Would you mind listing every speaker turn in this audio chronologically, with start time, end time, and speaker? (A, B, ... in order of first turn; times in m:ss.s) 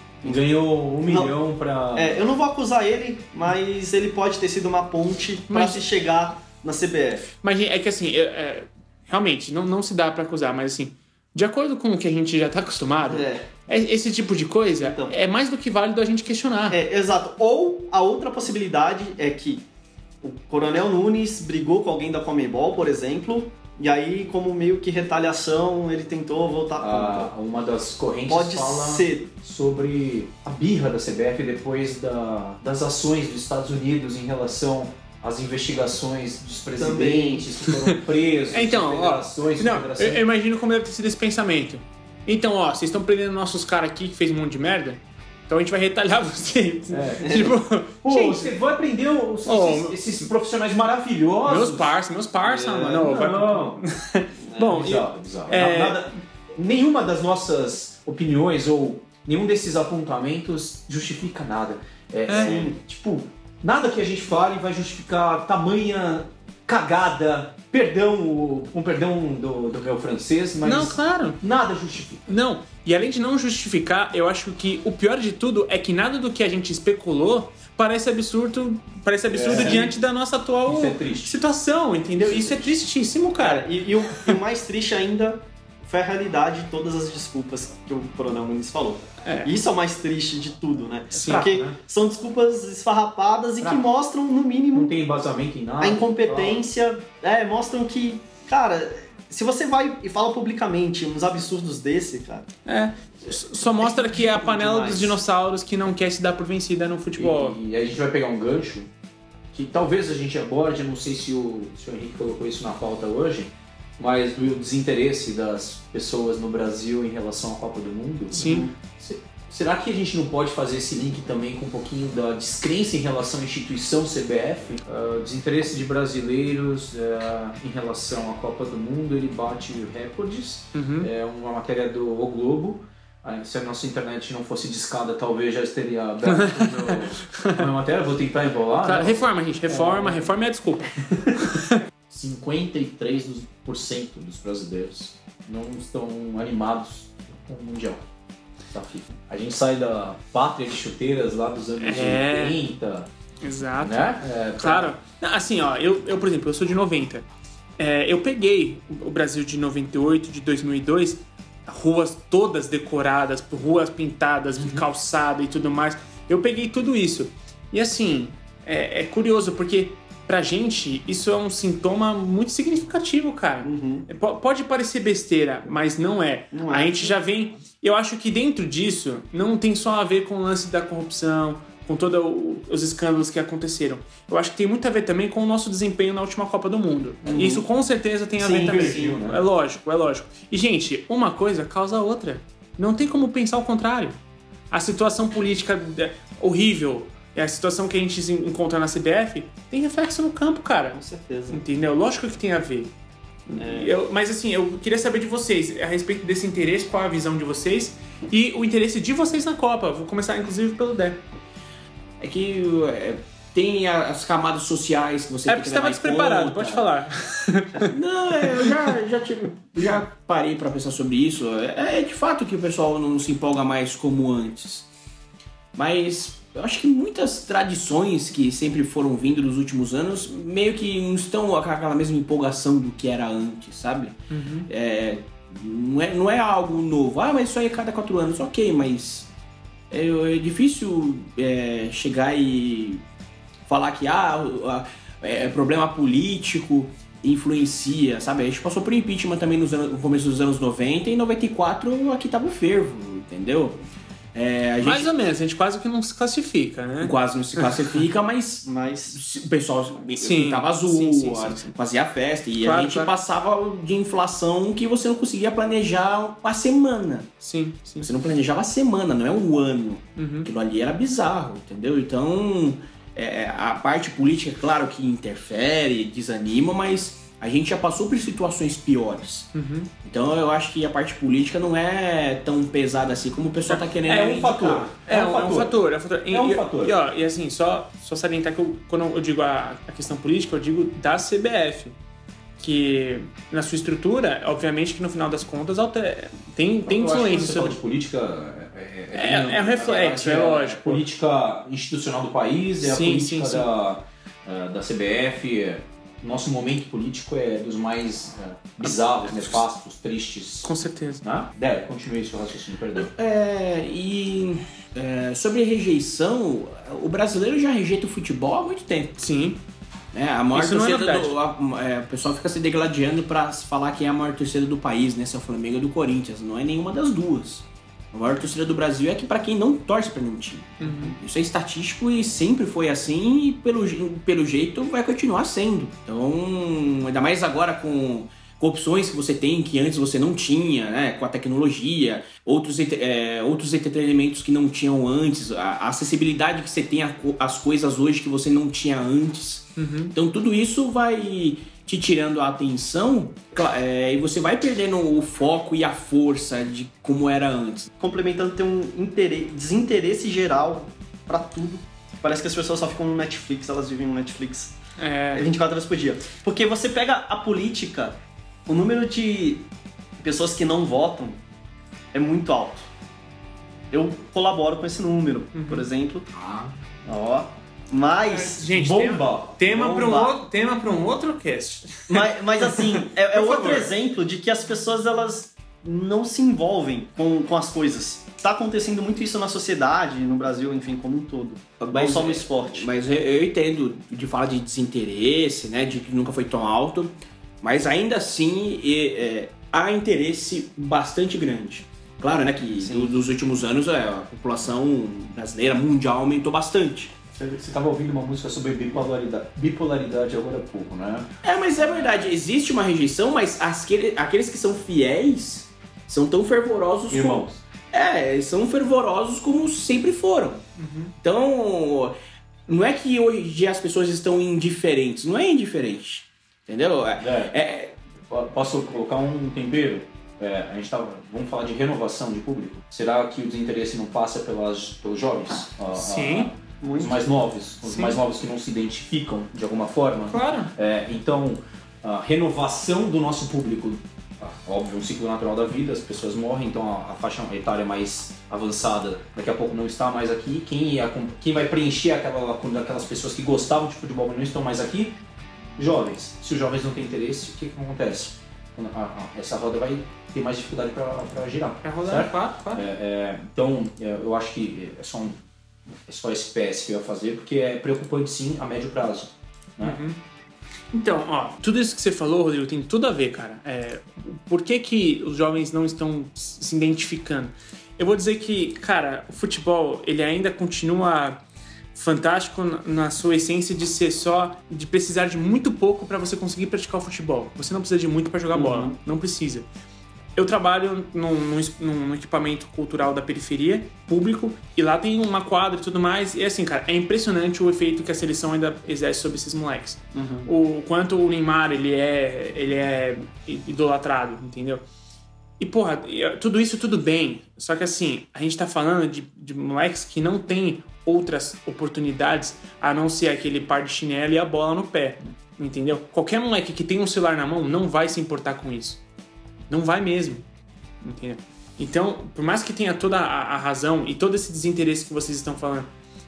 0:00.2-0:02.2 A
0:01.0-0:01.4 B
0:01.9-0:07.4 B
0:05.5-0:05.8 C
0:07.4-0:16.8 C
0:13.0-0:13.5 B
0:14.8-0:15.2 B
0:16.7-0:19.6 B
0:20.2-0:27.3 B
0:26.8-0:40.2 A
0:28.3-0:29.3 B
0:36.8-0:37.5 B
0:38.5-0:48.5 C
0:46.9-0:51.9 A
0:49.4-0:50.3 C
0:51.4-0:56.0 C
0:52.4-0:53.1 B
0:53.0-0:53.8 A
0:54.5-0:54.8 B
0:54.7-1:12.2 A
1:02.3-1:02.6 C
1:02.3-1:02.8 B
1:10.6-1:11.4 C
1:12.3-1:23.7 C
1:19.3-1:20.0 A
1:20.6-1:21.4 A
1:22.2-1:22.7 A
1:23.4-1:34.9 B
1:29.2-1:29.5 C
1:31.1-1:31.5 C
1:31.2-1:31.8 A
1:34.7-1:36.6 A
1:35.8-1:42.5 B
1:42.6-1:47.6 C
1:43.8-1:45.2 B
1:47.2-1:48.9 A
1:49.5-2:20.3 A
1:58.3-1:58.7 C
1:58.4-1:58.7 B
2:10.7-2:11.1 C
2:16.2-2:17.6 C
2:18.8-2:21.8 C
2:22.1-2:28.0 A
2:28.7-2:33.1 A
2:31.8-2:32.6 C
2:33.4-2:37.2 C
2:33.8-2:34.9 A
2:37.8-3:14.2 C
2:44.6-2:44.8 A
2:53.6-2:54.1 B
2:56.5-2:57.2 B
3:07.2-3:07.6 B
3:08.4-3:09.1 B
3:08.4-3:09.4 A
3:14.7-3:22.9 C
3:20.9-3:21.6 B
3:23.5-3:31.2 C
3:23.6-3:23.9 B
3:32.2-3:36.9 D
3:35.5-3:38.9 C
3:37.8-3:44.9 D
3:45.7-3:59.3 D
3:54.3-3:54.7 C
3:59.9-4:03.0 D
4:03.6-4:13.8 D
4:14.3-4:15.1 D
4:14.8-4:17.6 C
4:17.0-4:27.3 D
4:18.6-4:19.2 B
4:20.2-4:21.7 C
4:22.6-4:23.1 C
4:27.4-4:28.1 C
4:28.0-4:39.5 D
4:30.2-4:30.5 C
4:39.5-4:39.9 C
4:40.0-4:45.0 D
4:43.7-4:44.3 C
4:44.0-4:46.9 A
4:45.0-4:52.0 C
4:52.6-4:57.8 C
4:56.8-5:13.1 A
4:59.1-5:01.0 C
5:02.8-5:03.7 C
5:08.8-5:09.6 C
5:10.6-5:11.2 C
5:12.9-5:19.2 D
5:19.2-5:19.6 C
5:20.1-5:57.9 D
5:20.5-5:21.3 C
5:30.8-5:31.2 C
5:49.8-5:50.1 C
5:58.0-6:04.8 B
6:05.0-6:05.5 C
6:05.3-6:09.7 B
6:10.2-6:11.4 B
6:12.1-6:12.9 B
6:13.9-6:16.3 B
6:15.5-6:15.8 C
6:16.4-6:16.7 A
6:17.0-6:18.7 B
6:18.2-6:23.9 C
6:18.7-6:19.6 A
6:19.6-6:20.4 B
6:22.1-6:32.9 B
6:31.8-6:47.1 D
6:42.8-6:43.1 B
6:47.4-6:52.3 A
6:51.4-7:00.6 D
6:57.1-6:57.6 A
7:00.8-7:01.1 C
7:01.2-7:02.1 D
7:02.7-7:08.0 D
7:07.2-7:07.6 A
7:08.3-7:35.2 A
7:15.9-7:16.5 C
7:16.8-7:17.2 B
7:17.8-7:18.2 C
7:20.3-7:20.7 C
7:35.8-7:45.4 A
7:41.8-7:42.9 C
7:46.1-7:50.0 A
7:49.8-7:50.2 C
7:50.9-8:01.4 C
8:01.9-8:09.7 C
8:08.5-8:09.0 B
8:10.4-8:24.8 C
8:20.1-8:20.5 B
8:25.6-8:39.0 C
8:39.7-8:40.4 C
8:41.0-8:45.9 C